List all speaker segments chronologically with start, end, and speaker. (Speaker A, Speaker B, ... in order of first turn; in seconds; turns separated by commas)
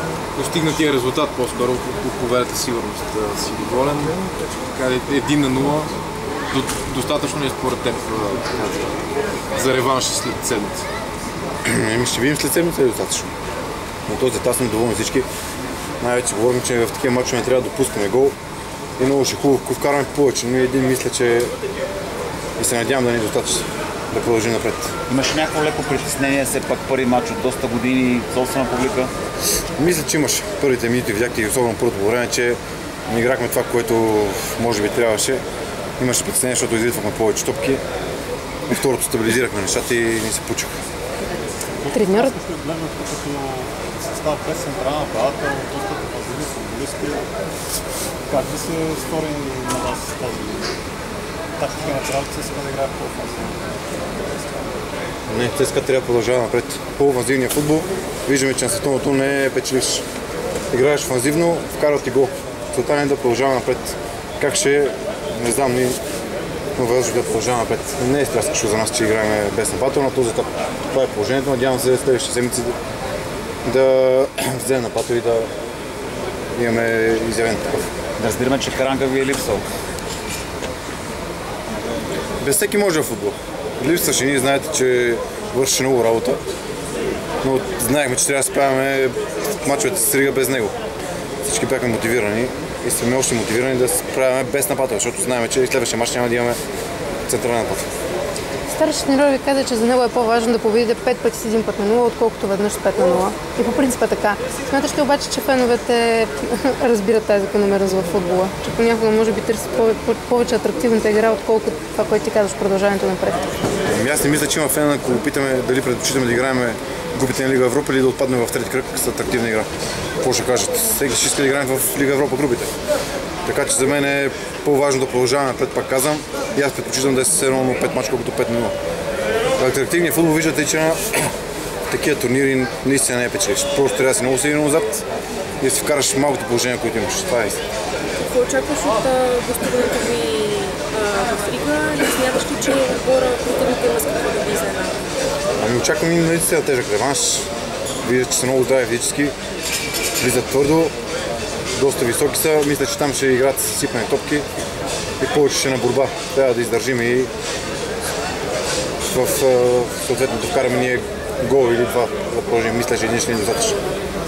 Speaker A: 0.3-5.9, Speaker A: 6.5-8.9, Speaker A: 9.5-10.8, Speaker B: 11.6-13.3, Speaker B: 14.1-15.3, Speaker B: 16.0-18.3, Speaker B: 19.0-21.5, Speaker B: 22.6-24.9, Speaker C: 25.1-29.1, Speaker B: 29.8-32.6, Speaker B: 33.1-35.4, Speaker B: 36.0-37.8, Speaker B: 38.7-40.7, Speaker D: 41.7-47.3, Speaker E: 41.9-42.3, Speaker D: 48.3-50.8, Speaker D: 51.6-54.7, Speaker B: 55.3-60.0, Speaker B: 60.7-66.0, Speaker B: 66.8-72.7, Speaker B: 73.6-75.5, Speaker B: 76.5-77.9, Speaker C: 78.2-79.7, Speaker B: 82.4-86.4, Speaker B: 87.4-90.7, Speaker B: 91.4-96.6, Speaker B: 97.3-97.9, Speaker E: 98.7-113.5, Speaker B: 113.9-119.7, Speaker B: 120.2-122.7, Speaker B: 123.5-128.7, Speaker B: 129.6-131.3, Speaker B: 131.9-135.0, Speaker B: 135.6-137.6, Speaker F: 138.2-145.0, Speaker B: 145.6-147.5, Speaker B: 148.0-149.3, Speaker B: 150.2-150.9, Speaker B: 151.8-154.4, Speaker B: 155.2-157.3, Speaker B: 159.1-163.8